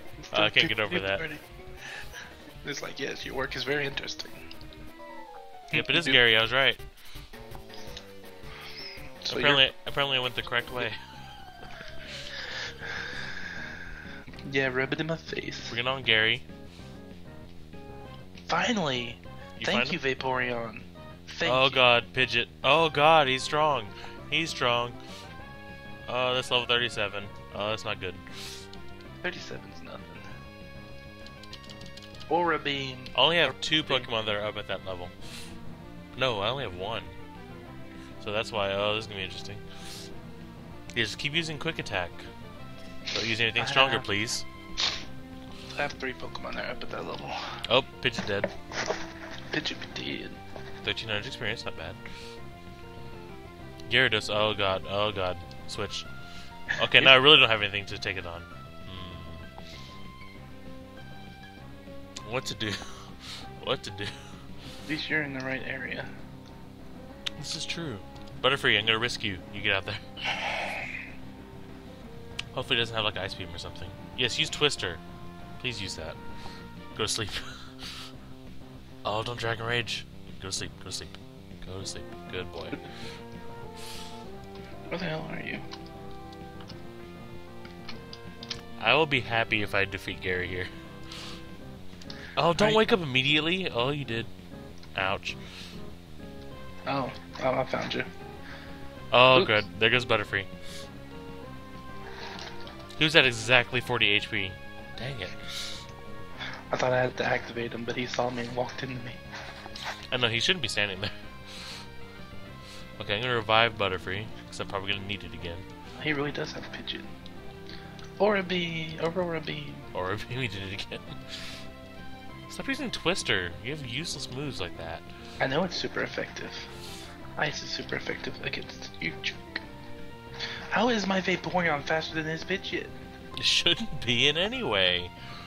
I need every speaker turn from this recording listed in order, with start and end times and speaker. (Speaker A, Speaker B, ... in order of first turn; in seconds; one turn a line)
Speaker A: 0.2-2.1
Speaker B: 0.3-1.3
Speaker A: 2.6-4.4
Speaker A: 5.7-6.2
Speaker B: 5.7-6.8
Speaker A: 9.2-9.7
Speaker B: 9.3-11.2
Speaker A: 14.5-15.8
Speaker B: 15.7-16.4
Speaker A: 18.5-21.8
Speaker B: 19.6-20.0
Speaker B: 21.4-25.0
Speaker B: 26.1-28.6
Speaker A: 29.2-30.3
Speaker A: 32.3-34.1
Speaker B: 33.1-35.1
Speaker B: 36.1-37.2
Speaker B: 38.2-40.0
Speaker B: 40.9-42.3
Speaker B: 43.1-44.5
Speaker A: 43.6-44.1
Speaker A: 45.8-47.6
Speaker B: 47.7-48.5
Speaker A: 49.5-50.4
Speaker B: 50.8-52.0
Speaker B: 53.9-56.1
Speaker B: 56.8-59.5
Speaker A: 56.8-57.1
Speaker B: 62.2-64.4
Speaker A: 64.9-66.1
Speaker B: 67.4-70.0
Speaker B: 72.5-75.0
Speaker B: 75.6-76.2
Speaker B: 77.0-78.1
Speaker B: 79.0-82.9
Speaker A: 84.9-85.7
Speaker B: 88.8-90.7
Speaker B: 92.4-94.3
Speaker A: 92.5-92.9
Speaker B: 95.0-95.4
Speaker A: 96.9-98.1
Speaker B: 99.1-100.5
Speaker B: 103.0-105.7
Speaker A: 106.7-109.2
Speaker B: 110.1-111.8
Speaker B: 113.0-115.7
Speaker A: 116.0-117.1
Speaker A: 118.2-119.9
Speaker B: 119.9-121.6
Speaker B: 122.5-125.1
Speaker A: 125.4-126.7
Speaker A: 127.4-129.6
Speaker A: 130.7-133.0
Speaker B: 133.4-135.1